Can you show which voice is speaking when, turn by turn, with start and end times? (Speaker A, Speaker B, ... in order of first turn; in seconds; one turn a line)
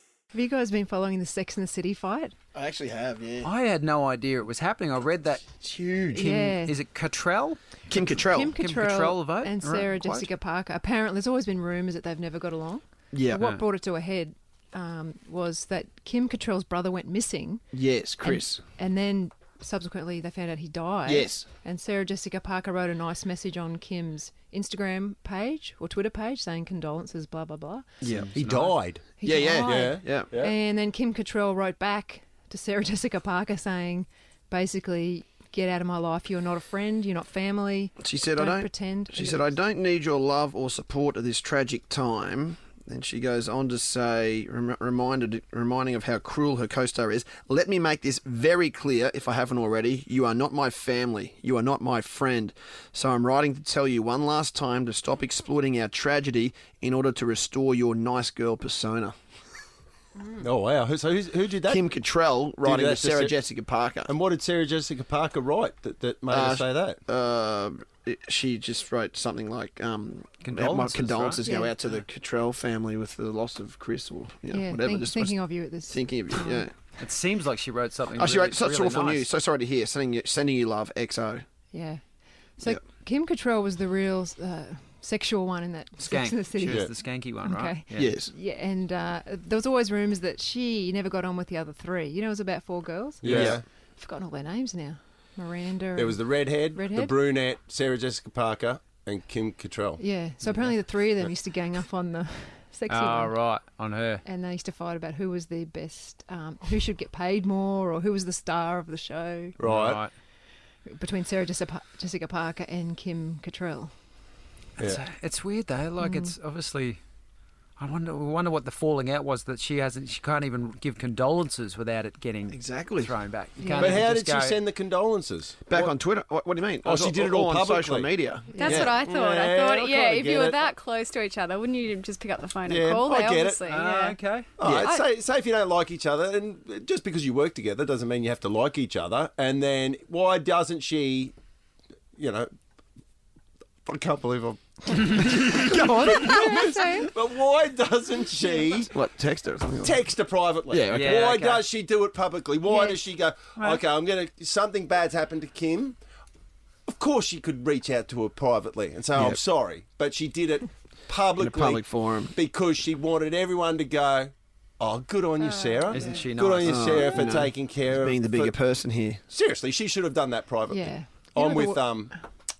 Speaker A: 0.3-2.3
Speaker B: 2.5-3.5
Speaker C: 3.4-10.3
Speaker B: 5.6-6.1
Speaker A: 6.1-6.8
Speaker B: 7.9-8.6
Speaker A: 8.2-17.6
Speaker B: 13.1-13.5
Speaker B: 17.7-18.6
Speaker A: 18.2-27.9
Speaker B: 21.1-21.5
Speaker B: 28.0-28.3
Speaker C: 28.1-28.8
Speaker D: 28.4-29.1
Speaker A: 29.2-39.5
Speaker B: 29.2-30.3
Speaker D: 29.6-30.5
Speaker B: 38.0-59.1
Speaker D: 60.4-61.9
Speaker B: 61.7-64.1
Speaker D: 62.6-63.4
Speaker D: 64.1-67.0
Speaker B: 66.3-76.7
Speaker C: 70.4-71.4
Speaker A: 71.4-71.7
Speaker A: 74.5-76.7
Speaker C: 77.0-79.3
Speaker B: 78.2-81.4
Speaker A: 81.7-82.0
Speaker A: 82.6-97.2
Speaker C: 86.0-88.1
Speaker D: 86.7-86.9
Speaker B: 87.9-88.3
Speaker D: 93.2-93.6
Speaker B: 93.2-93.6
Speaker D: 96.0-100.7
Speaker A: 100.0-103.4
Speaker C: 102.9-104.2
Speaker A: 104.2-109.6
Speaker D: 109.6-110.0
Speaker C: 109.6-110.1
Speaker A: 110.8-113.9
Speaker C: 114.8-117.0
Speaker A: 116.0-116.3
Speaker C: 117.8-124.6
Speaker B: 122.5-123.1
Speaker A: 123.6-124.0
Speaker D: 123.8-126.0
Speaker B: 125.7-129.0
Speaker D: 126.8-128.1
Speaker A: 128.5-128.8
Speaker E: 128.6-135.1
Speaker D: 128.8-130.7
Speaker D: 132.7-133.7
Speaker C: 133.7-134.5
Speaker D: 134.6-141.3
Speaker D: 142.2-142.5
Speaker D: 143.9-148.9
Speaker A: 145.6-147.1
Speaker B: 148.9-150.0
Speaker D: 149.8-156.0
Speaker B: 150.7-151.2
Speaker C: 150.9-151.7
Speaker A: 152.7-153.0
Speaker C: 153.6-153.8
Speaker D: 156.9-168.6
Speaker B: 159.1-159.4
Speaker B: 161.4-162.3
Speaker C: 165.9-167.0
Speaker B: 166.7-169.2
Speaker D: 169.3-172.2
Speaker A: 170.7-172.1